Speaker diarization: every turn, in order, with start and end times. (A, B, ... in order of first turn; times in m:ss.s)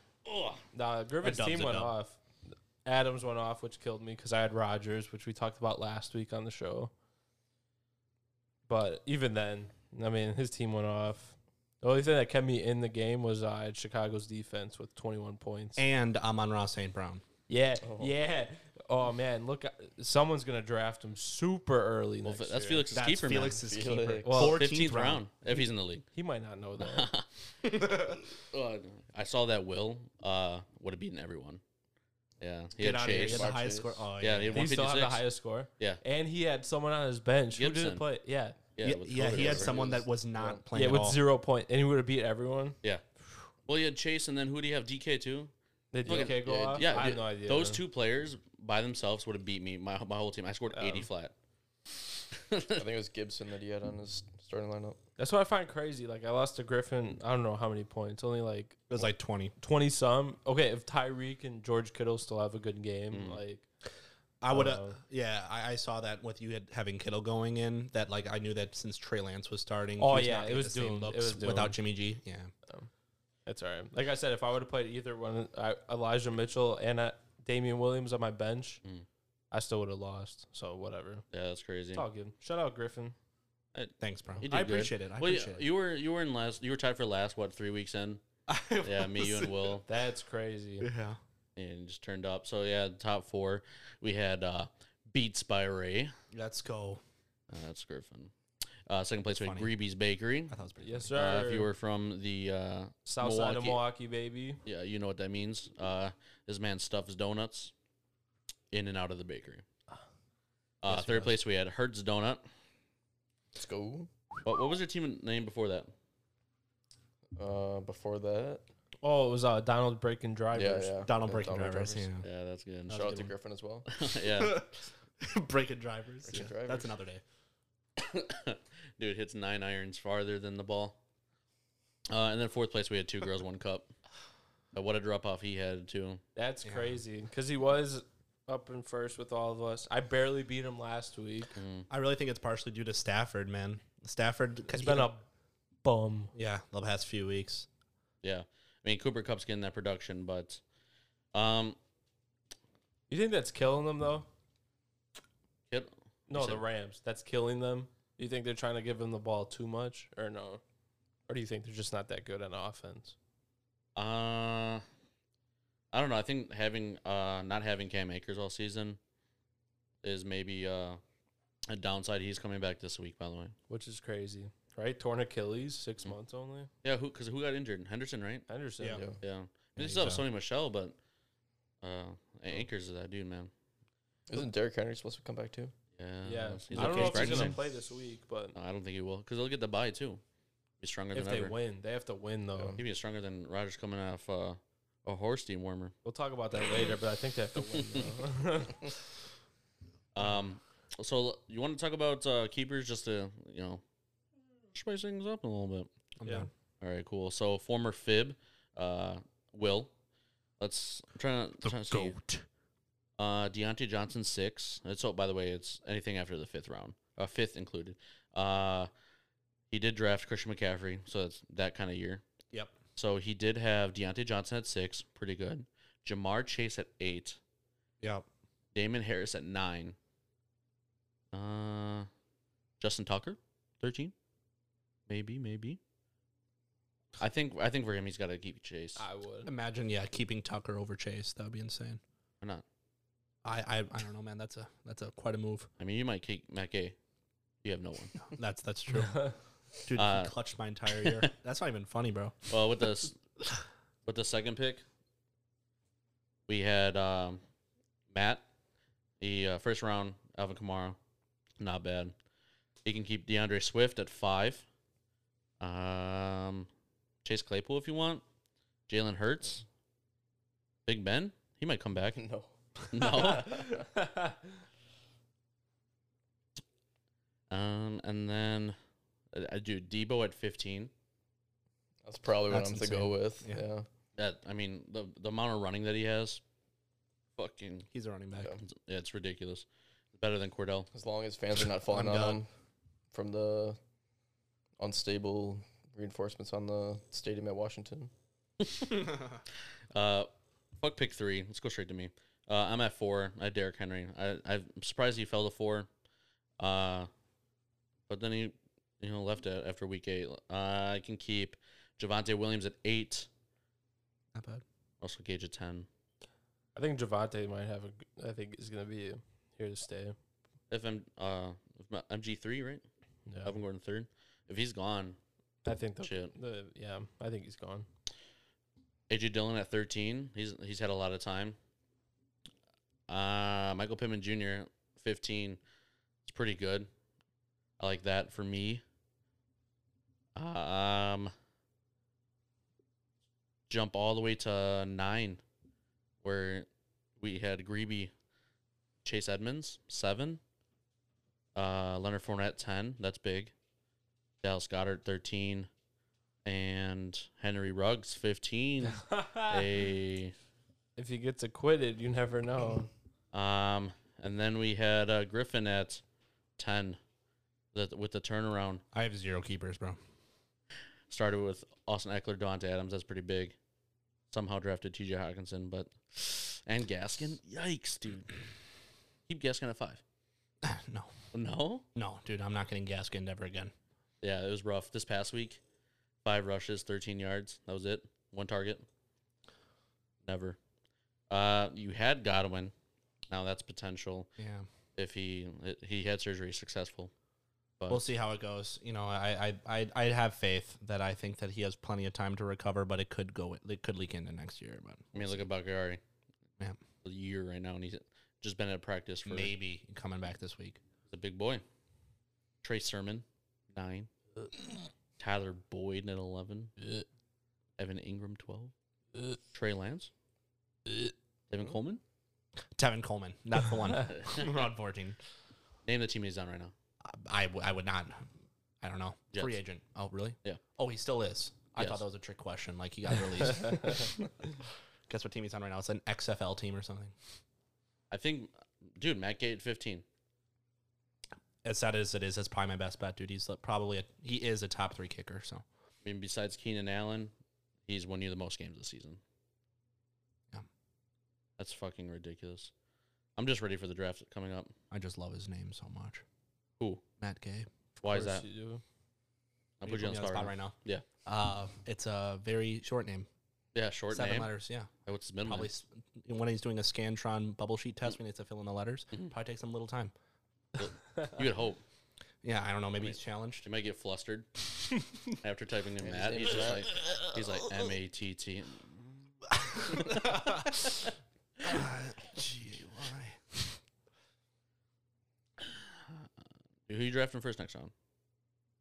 0:00.2-0:00.6 A
0:00.7-0:02.2 B
0:01.2-0:02.0 C
0:02.8-0:06.9 B
0:08.7-0:15.8 B
0:15.8-0:17.2 C
0:17.5-0:22.9 B
0:17.8-0:18.1 D
0:22.2-0:23.7 A
0:22.9-0:25.2 C
0:23.5-0:24.4 D
0:24.2-0:24.6 B
0:24.4-0:26.0 A
0:26.1-0:27.1 B
0:26.8-0:27.2 A
0:27.7-0:28.2 C
0:28.4-0:31.6 A
0:32.4-0:33.5 A
0:32.8-0:34.8 C
0:33.0-0:34.1 D
0:34.2-0:35.2 A
0:34.5-0:38.6 B
0:37.6-0:38.0 A
0:38.8-0:39.8 A
0:38.8-0:41.2 C
0:39.2-0:40.6 D
0:40.7-0:42.8 B
0:43.7-0:45.5 A
0:45.9-0:47.8 B
0:46.0-0:47.0 D
0:46.1-0:51.3 A
0:50.7-0:51.1 B
0:52.5-0:52.8 A
0:52.8-0:55.0 D
0:55.2-1:03.7 B
0:58.9-0:59.5 C
1:03.1-1:03.4 A
1:04.4-1:12.5 C
1:04.5-1:05.0 B
1:10.0-1:11.8 B
1:13.5-1:18.8 B
1:19.5-1:21.2 B
1:21.3-1:22.1 A
1:21.9-1:23.2 B
1:23.7-1:28.2 A
1:24.0-1:25.6 C
1:28.5-1:29.8 C
1:28.8-1:29.9 A
1:29.9-1:30.9 B
1:30.8-1:31.2 C
1:31.6-1:36.2 A
1:36.3-1:37.0 C
1:37.5-1:38.3 A
1:38.9-1:40.6 A
1:39.3-1:39.7 C
1:40.5-1:41.2 C
1:40.8-1:41.7 B
1:41.2-1:43.8 A
1:43.1-1:44.6 B
1:44.6-1:47.7 A
1:48.7-1:49.6 A
1:50.8-1:52.4 A
1:50.9-1:51.3 C
1:53.5-1:54.1 D
1:54.4-1:55.9 A
1:57.4-1:58.6 D
1:59.0-2:01.0 B
2:00.5-2:02.1 D
2:01.0-2:02.3 C
2:02.2-2:03.2 A
2:02.9-2:03.3 C
2:02.9-2:03.9 D
2:03.9-2:04.6 A
2:04.3-2:07.2 C
2:06.3-2:06.9 D
2:08.0-2:11.0 A
2:12.1-2:13.9 A
2:14.7-2:16.2 A
2:16.4-2:21.5 B
2:16.6-2:17.0 C
2:21.6-2:21.8 A
2:21.9-2:25.1 C
2:24.7-2:25.2 B
2:25.8-2:26.3 B
2:26.3-2:27.7 C
2:28.2-2:30.6 A
2:31.3-2:31.8 A
2:33.1-2:34.3 B
2:35.7-2:36.6 A
2:36.3-2:40.6 B
2:41.3-2:43.2 B
2:44.0-2:44.8 A
2:45.9-2:49.0 A
2:50.0-2:51.0 A
2:51.7-2:53.6 A
2:53.7-2:56.7 B
2:56.8-2:58.5 A
2:58.5-2:59.1 B
2:59.2-3:01.0 A
2:59.8-3:00.2 C
3:01.8-3:03.5 A
3:04.3-3:05.7 D
3:06.0-3:07.6 A
3:06.2-3:08.5 B
3:06.7-3:07.6 C
3:08.5-3:10.2 A
3:10.8-3:11.5 A
3:11.1-3:12.8 B
3:12.8-3:15.9 A
3:16.0-3:18.9 B
3:17.7-3:18.0 A
3:20.2-3:23.8 A
3:24.7-3:25.9 A
3:26.2-3:26.5 C
3:26.8-3:29.9 A
3:30.6-3:32.2 A
3:31.6-3:32.5 C
3:33.2-3:38.9 A
3:39.7-3:42.2 A
3:43.0-3:47.4 A
3:48.0-3:48.3 C
3:48.7-3:50.0 A
3:51.3-3:52.1 A
3:52.8-3:54.1 A
3:55.1-3:55.8 A
3:57.2-3:59.0 A
3:59.0-3:59.5 B
3:59.4-4:02.0 C
4:03.4-4:05.7 C
4:05.8-4:07.0 A
4:07.6-4:08.2 A
4:08.3-4:09.3 C
4:09.8-4:12.5 C
4:10.0-4:10.3 A
4:11.0-4:11.3 A
4:12.5-4:13.2 A
4:14.0-4:14.8 A
4:16.5-4:17.4 A
4:18.1-4:18.4 A
4:19.2-4:21.0 A
4:21.6-4:22.1 A
4:22.8-4:24.6 A
4:25.6-4:26.7 A
4:27.2-4:28.2 A
4:28.9-4:29.6 A
4:30.9-4:32.2 A
4:32.1-4:33.8 D
4:32.9-4:33.6 A
4:33.6-4:34.4 B
4:37.5-4:38.8 A
4:39.3-4:40.9 A
4:42.0-4:43.9 D
4:42.5-4:43.6 C
4:44.2-4:46.4 A
4:47.4-4:47.9 A
4:47.9-4:48.6 C
4:48.4-4:48.6 D
4:48.6-4:50.9 A
4:50.9-4:52.5 D
4:51.9-4:52.4 C
4:53.1-4:53.8 D
4:54.8-4:58.1 D
4:58.6-4:59.1 A
4:59.9-5:05.9 A
5:06.6-5:07.1 A
5:08.1-5:13.3 A
5:14.3-5:14.6 C
5:15.0-5:15.9 A
5:16.8-5:20.2 B
5:20.7-5:22.8 A
5:23.3-5:23.6 B
5:23.4-5:25.2 A
5:25.6-5:27.9 B
5:26.0-5:26.3 A
5:29.1-5:31.6 A
5:33.1-5:35.6 A
5:36.2-5:36.9 A
5:37.8-5:38.8 A
5:40.4-5:41.3 A
5:43.7-5:45.4 A
5:46.2-5:46.7 A
5:47.2-5:48.1 A
5:49.0-5:50.4 A
5:51.5-5:53.5 A
5:54.4-5:55.7 A
5:56.4-6:00.3 A
5:58.9-5:59.6 B
6:01.0-6:02.9 B
6:03.3-6:06.0 A
6:06.6-6:07.0 A
6:07.7-6:08.8 A
6:08.9-6:10.0 C
6:11.1-6:13.6 A
6:14.3-6:18.3 A
6:19.3-6:20.0 A
6:20.6-6:21.1 C
6:21.3-6:21.8 A
6:21.9-6:23.7 C
6:24.2-6:25.6 A
6:26.2-6:28.8 A
6:30.2-6:30.6 A
6:31.3-6:32.7 A
6:33.3-6:34.3 A
6:34.4-6:34.7 C
6:35.0-6:37.1 A
6:37.8-6:38.1 A
6:37.9-6:45.4 C
6:45.1-6:46.0 A
6:47.0-6:49.5 A
6:49.2-6:50.8 C
6:51.1-6:51.6 A
6:52.6-6:54.1 A
6:55.2-6:56.8 A
6:57.8-6:58.7 A
6:59.5-7:00.1 A
7:01.5-7:02.0 A
7:02.8-7:05.2 C
7:04.0-7:04.7 A
7:05.9-7:06.7 A
7:07.0-7:08.3 C
7:08.8-7:14.2 C
7:11.8-7:12.0 A
7:15.1-7:17.1 C
7:18.1-7:20.0 A
7:21.6-7:25.6 C
7:26.0-7:27.3 A
7:27.9-7:29.2 A
7:31.6-7:32.7 A
7:33.4-7:34.8 A
7:34.9-7:36.2 C
7:37.2-7:37.7 C
7:38.0-7:38.4 A
7:38.1-7:38.8 B
7:39.8-7:41.0 A
7:39.8-7:43.3 C
7:43.7-7:44.5 A
7:44.1-7:44.9 C
7:45.0-7:45.7 A
7:45.4-7:50.1 C
7:50.8-7:51.8 A
7:52.4-7:53.6 C
7:53.0-7:54.5 A
7:55.2-8:00.5 A
7:56.0-7:57.0 D
7:59.6-8:00.9 C
8:01.6-8:03.6 C
8:05.6-8:06.2 A
8:06.9-8:07.9 A